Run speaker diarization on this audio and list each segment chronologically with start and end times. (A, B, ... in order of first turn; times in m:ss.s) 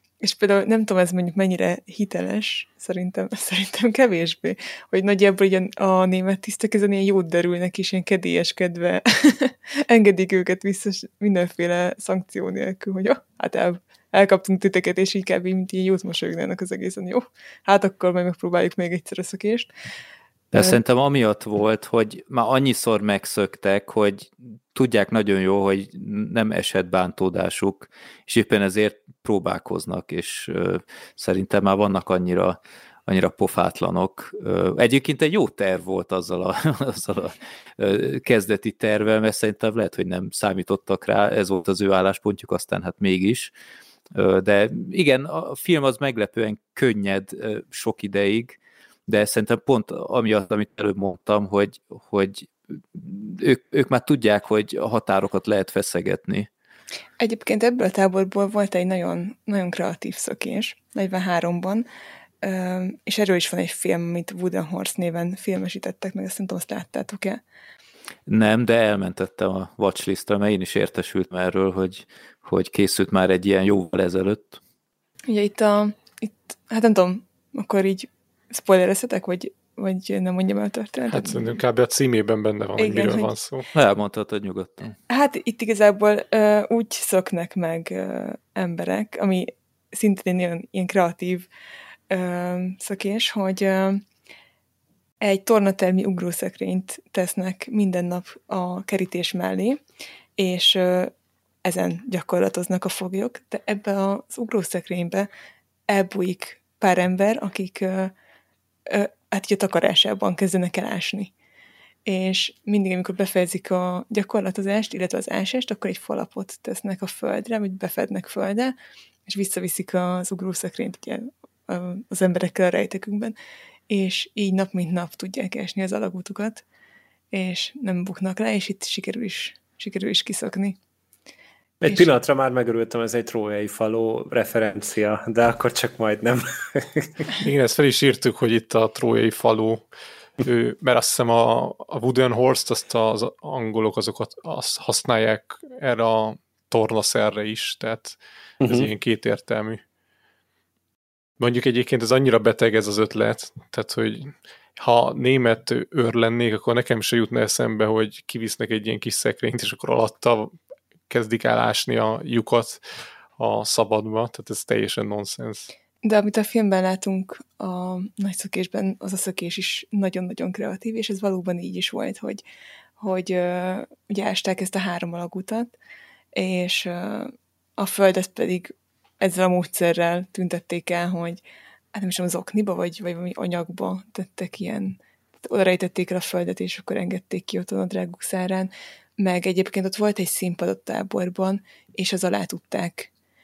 0:00.2-0:19.7 A
0:20.5-0:43.5 B
0:44.1-0:56.5 B
0:57.2-1:01.8 A
1:02.4-1:07.4 A
1:08.3-1:14.6 B
1:15.3-1:21.5 A
1:21.1-1:23.7 C
1:22.8-1:23.3 A
1:23.7-1:25.0 B
1:25.1-1:31.5 A
1:32.1-1:34.0 A
1:35.2-1:39.8 A
1:40.4-1:41.1 A
1:41.6-1:45.3 A
1:45.9-1:48.1 A
1:48.9-1:51.3 A
1:52.0-1:58.7 A
1:59.3-2:03.4 A
2:03.9-2:06.6 A
2:07.3-2:10.8 A
2:11.8-2:17.3 D
2:17.4-2:19.8 C
2:20.4-2:29.8 C
2:28.6-2:28.9 D
2:31.4-2:40.5 C
2:41.1-2:42.8 C
2:43.4-2:45.7 C
2:46.0-2:52.4 A
2:53.0-2:55.7 A
2:56.3-3:01.4 A
3:01.9-3:13.1 A